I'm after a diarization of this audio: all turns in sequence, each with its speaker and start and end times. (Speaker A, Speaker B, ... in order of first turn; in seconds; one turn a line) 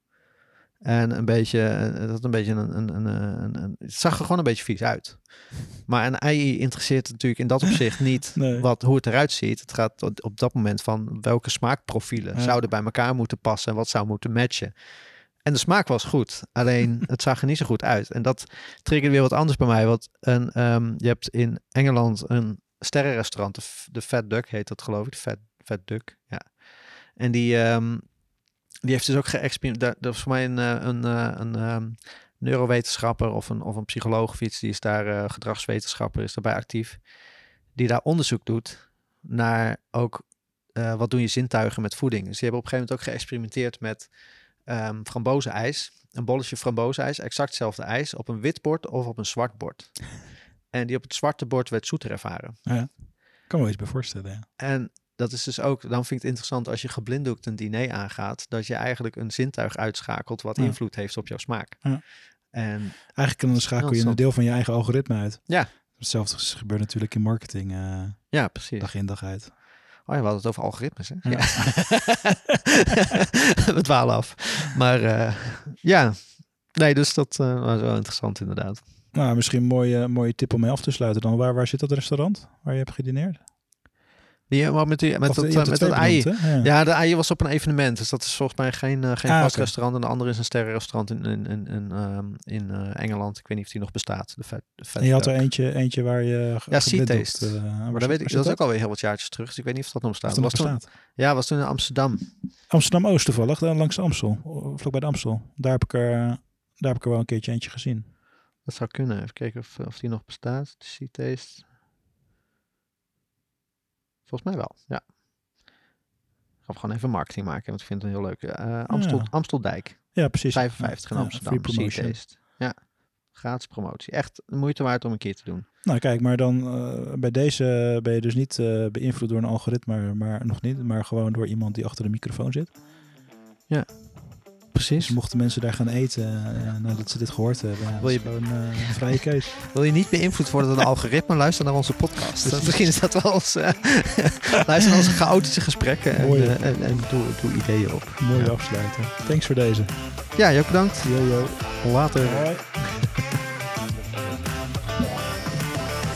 Speaker A: 0.8-28.3
Speaker B: 8.3-8.7
Speaker B: 12.3-12.6
Speaker A: 28.8-37.2
Speaker A: 37.7-52.7
Speaker B: 52.6-54.5
Speaker A: 54.6-64.2
Speaker B: 63.1-69.5
Speaker A: 65.5-65.7
Speaker A: 68.3-69.4
Speaker A: 70.0-72.4
Speaker B: 71.2-72.2
Speaker A: 72.9-78.8
Speaker B: 79.1-83.4
Speaker A: 84.5-95.5
Speaker B: 85.2-86.7
Speaker B: 89.3-89.7
Speaker B: 95.0-98.6
Speaker A: 96.7-102.4
Speaker B: 100.3-100.9
Speaker B: 102.7-108.1
Speaker A: 108.6-111.7
Speaker A: 114.3-115.1
Speaker A: 116.7-125.7
Speaker B: 118.9-122.2
Speaker B: 125.8-132.8
Speaker A: 133.7-135.2
Speaker B: 135.0-139.6
Speaker A: 138.0-139.1
Speaker A: 139.6-148.7
Speaker B: 142.4-143.0
Speaker B: 146.2-146.7
Speaker B: 148.2-150.4
Speaker A: 150.3-153.1
Speaker B: 151.0-153.2
Speaker B: 153.8-155.7